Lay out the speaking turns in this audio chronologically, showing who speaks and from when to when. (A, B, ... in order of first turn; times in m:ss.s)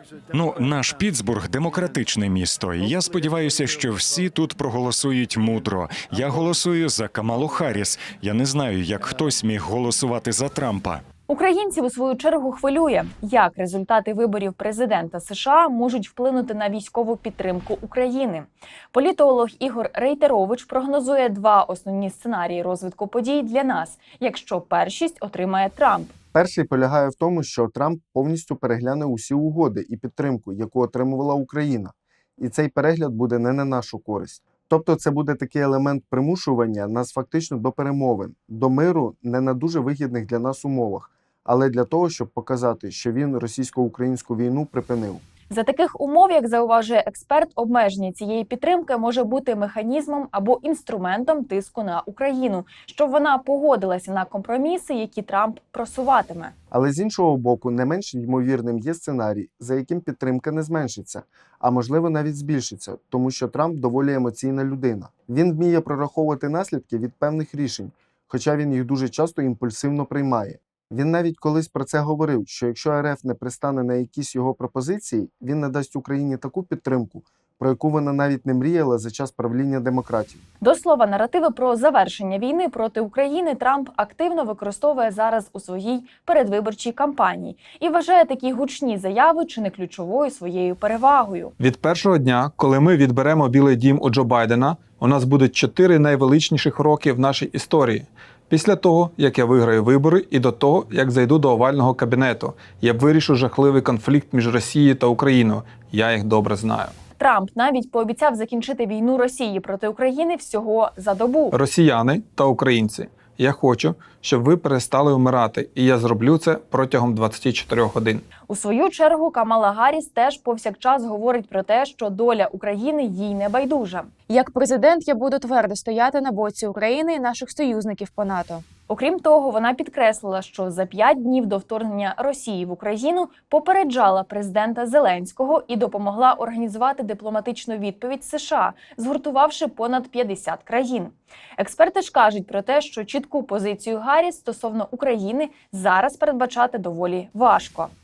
0:00.3-0:11.0 A
0:11.3-0:26.1 B
0:26.3-0:45.2 C
0:45.5-0:56.5 B
0:56.7-1:20.4 C
1:20.6-1:31.5 B
1:31.6-1:47.0 D
1:47.2-1:51.6 B
1:51.5-1:58.2 D
1:58.5-2:04.1 B
2:04.3-2:08.6 E
2:08.9-2:27.9 B